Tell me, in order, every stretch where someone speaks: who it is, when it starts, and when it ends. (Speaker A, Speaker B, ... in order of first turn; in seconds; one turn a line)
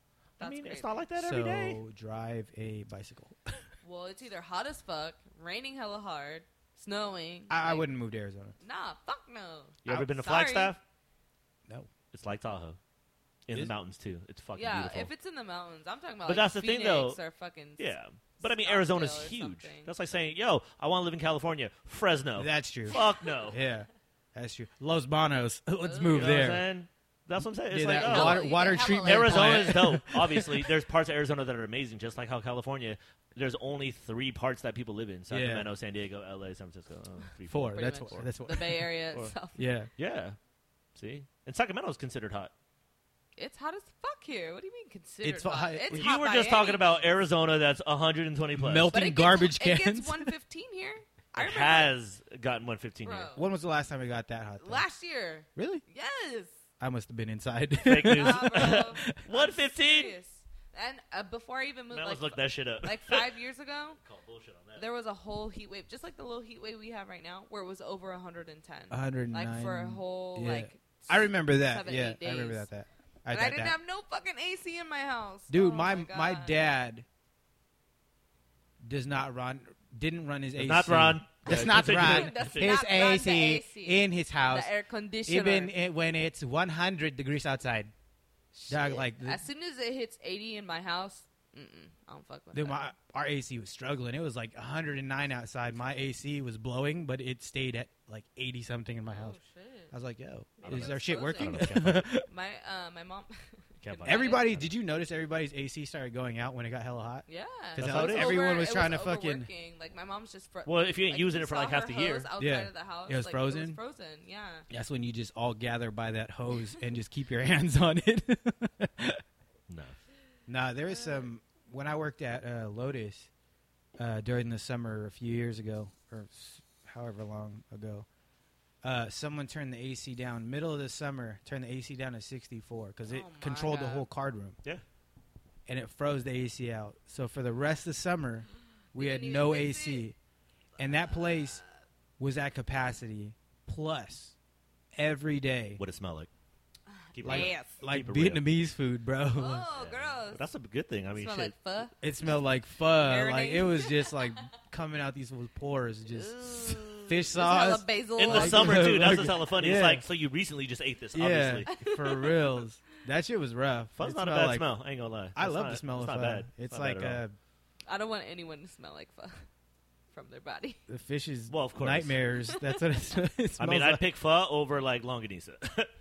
Speaker A: 0.4-1.0
Speaker B: 0.4-1.8
Speaker C: 1.2-3.6
Speaker A: 3.8-7.9
Speaker C: 7.5-8.6
Speaker A: 8.6-10.8
Speaker B: 9.8-10.8
Speaker B: 12.1-12.8
Speaker B: 13.5-15.1
Speaker A: 14.5-19.9
Speaker B: 16.3-17.2
Speaker B: 17.8-23.6
Speaker C: 22.4-26.7
Speaker A: 22.9-23.4
Speaker A: 25.9-26.5
Speaker B: 26.1-38.3
Speaker C: 27.7-30.7
Speaker A: 27.9-29.9
Speaker C: 35.3-35.7
Speaker C: 37.5-38.9
Speaker A: 37.7-39.6
Speaker C: 39.6-39.9
Speaker B: 40.0-40.4
Speaker B: 41.0-42.5
Speaker A: 43.4-47.0
Speaker C: 45.2-46.1
Speaker B: 45.9-48.9
Speaker C: 48.5-50.3
Speaker A: 48.9-51.9
Speaker B: 51.4-53.3
Speaker A: 53.0-53.5
Speaker C: 53.4-54.9
Speaker A: 54.6-56.5
Speaker C: 55.6-55.8
Speaker C: 56.8-59.2
Speaker B: 57.8-60.1
Speaker A: 58.1-64.0
Speaker B: 61.9-63.3
Speaker B: 64.0-64.8
Speaker A: 64.8-72.7
Speaker C: 68.9-73.8
Speaker A: 73.3-76.6
Speaker C: 75.5-77.1
Speaker C: 78.8-84.7
Speaker B: 80.6-82.8
Speaker A: 81.5-85.7
Speaker C: 85.3-87.9
Speaker A: 88.5-92.9
Speaker C: 88.7-89.4
Speaker C: 92.5-99.4
Speaker A: 99.1-99.9
Speaker C: 99.9-102.3
Speaker A: 100.6-104.5
Speaker B: 100.6-102.1
Speaker B: 103.8-104.7
Speaker C: 104.0-109.5
Speaker A: 107.3-114.7
Speaker B: 107.8-108.5
Speaker B: 110.7-112.3
Speaker C: 112.4-113.8
Speaker C: 114.7-119.2
Speaker B: 119.7-120.0
Speaker C: 120.5-123.3
Speaker C: 124.0-128.1
Speaker C: 128.8-134.6
Speaker A: 133.1-134.1
Speaker C: 135.7-140.2
Speaker A: 138.9-140.1
Speaker C: 140.8-141.6
Speaker A: 140.8-141.6
Speaker C: 142.2-144.4
Speaker C: 145.0-145.8
Speaker B: 145.8-146.3
Speaker A: 147.1-147.8
Speaker B: 147.2-148.4
Speaker C: 147.2-149.7
Speaker A: 149.3-150.4
Speaker B: 149.8-151.6
Speaker A: 151.2-151.9
Speaker C: 152.0-160.1
Speaker A: 153.0-154.4
Speaker A: 156.1-159.3
Speaker B: 158.2-161.8
Speaker C: 161.1-164.7
Speaker A: 161.7-162.6
Speaker B: 164.0-167.2
Speaker C: 165.3-167.3
Speaker A: 167.9-169.5
Speaker A: 170.1-170.8
Speaker C: 170.9-174.0
Speaker B: 171.5-172.2
Speaker A: 172.5-172.8
Speaker B: 173.6-175.9